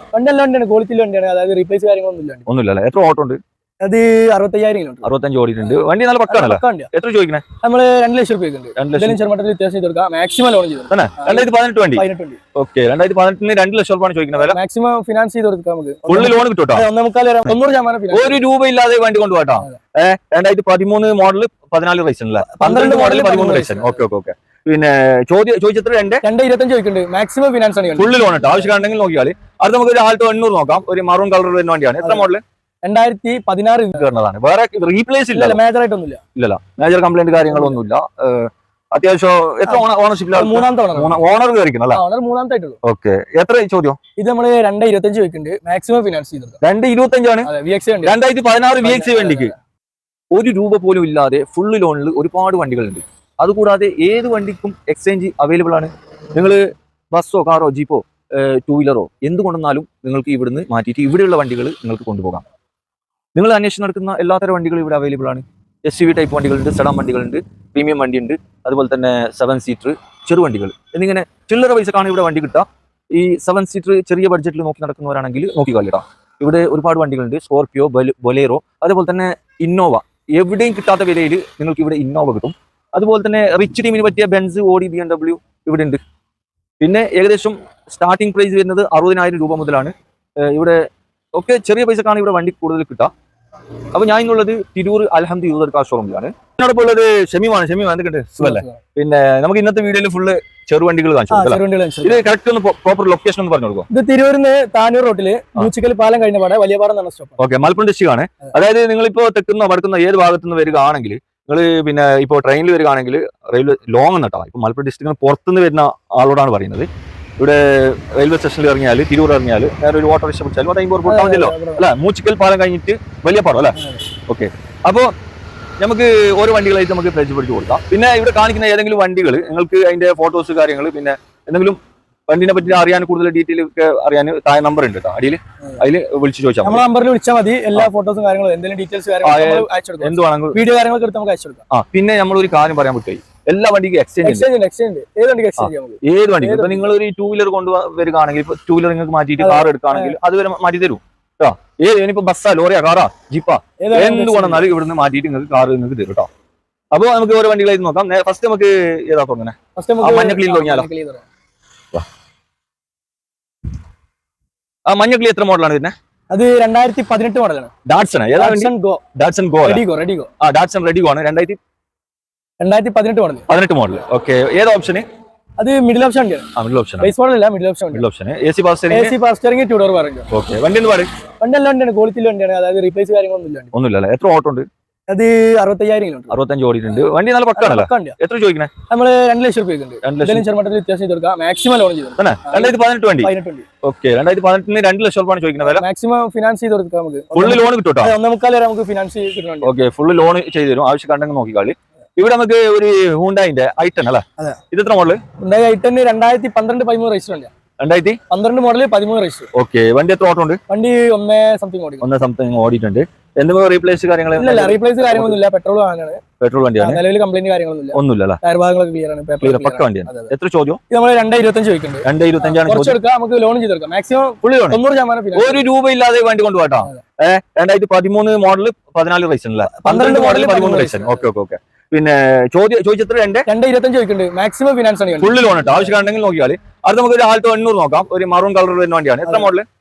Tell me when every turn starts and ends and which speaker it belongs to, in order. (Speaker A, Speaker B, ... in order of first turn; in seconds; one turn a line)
Speaker A: 0.1-2.5
Speaker B: 2.5-3.4
Speaker A: 3.8-5.1
Speaker B: 5.0-7.4
Speaker A: 5.6-6.9
Speaker A: 7.6-12.4
Speaker B: 8.8-9.2
Speaker B: 10.9-12.0
Speaker B: 12.5-14.6
Speaker A: 14.3-18.4
Speaker B: 16.1-16.8
Speaker B: 18.1-26.2
Speaker A: 22.5-24.0
Speaker A: 26.2-28.2
Speaker B: 28.0-32.4
Speaker A: 32.0-32.3
Speaker A: 32.8-34.1
Speaker B: 33.9-35.6
Speaker A: 35.3-36.2
Speaker B: 36.4-42.0
Speaker A: 37.5-37.8
Speaker A: 39.7-41.2
Speaker A: 41.9-42.8
Speaker B: 42.8-44.0
Speaker A: 44.2-46.6
Speaker B: 46.6-47.5
Speaker A: 47.4-48.2
Speaker B: 48.0-49.5
Speaker A: 48.8-49.5
Speaker B: 50.3-62.4
Speaker B: 63.3-86.0
Speaker B: 86.8-90.8
Speaker B: 91.3-93.1
Speaker B: 93.9-103.9
Speaker A: 98.4-98.8
Speaker A: 101.3-102.2
Speaker A: 103.9-107.4
Speaker B: 107.4-116.9
Speaker B: 117.4-125.1
Speaker A: 121.0-121.8
Speaker A: 123.8-124.0
Speaker B: 125.8-136.8
Speaker A: 136.6-141.6
Speaker B: 139.2-140.6
Speaker B: 141.7-144.5
Speaker A: 144.2-146.8
Speaker B: 145.6-156.3
Speaker A: 149.4-150.2
Speaker A: 153.8-154.7
Speaker B: 156.9-160.9
Speaker A: 159.8-161.2
Speaker B: 164.8-165.9
Speaker A: 166.3-167.7
Speaker B: 167.8-169.8
Speaker A: 168.3-169.0
Speaker A: 169.6-170.3
Speaker B: 170.4-171.6
Speaker A: 172.6-173.4
Speaker B: 173.5-175.0
Speaker A: 175.6-176.5
Speaker B: 176.6-177.1
Speaker A: 177.0-178.1
Speaker B: 177.9-179.1
Speaker A: 178.9-180.3
Speaker B: 180.3-181.1
Speaker A: 181.4-183.7
Speaker B: 183.7-184.7
Speaker A: 185.1-186.3
Speaker B: 186.3-188.7
Speaker A: 186.9-188.2
Speaker A: 188.9-193.7
Speaker B: 190.0-190.5
Speaker B: 192.2-193.3
Speaker B: 193.8-195.8
Speaker A: 195.6-199.7
Speaker B: 197.3-198.1
Speaker B: 199.6-205.2
Speaker A: 205.4-207.5
Speaker B: 207.8-208.2
Speaker A: 208.3-209.5
Speaker B: 209.5-210.6
Speaker A: 210.7-212.1
Speaker B: 212.0-215.4
Speaker A: 214.3-216.2
Speaker B: 216.4-217.0
Speaker A: 216.8-220.3
Speaker B: 217.9-218.4
Speaker B: 219.4-220.8
Speaker A: 220.9-225.7
Speaker B: 222.0-223.0
Speaker B: 224.4-224.8
Speaker B: 225.3-233.5
Speaker A: 229.7-231.2
Speaker A: 233.5-236.0
Speaker B: 235.2-239.7
Speaker A: 239.2-239.5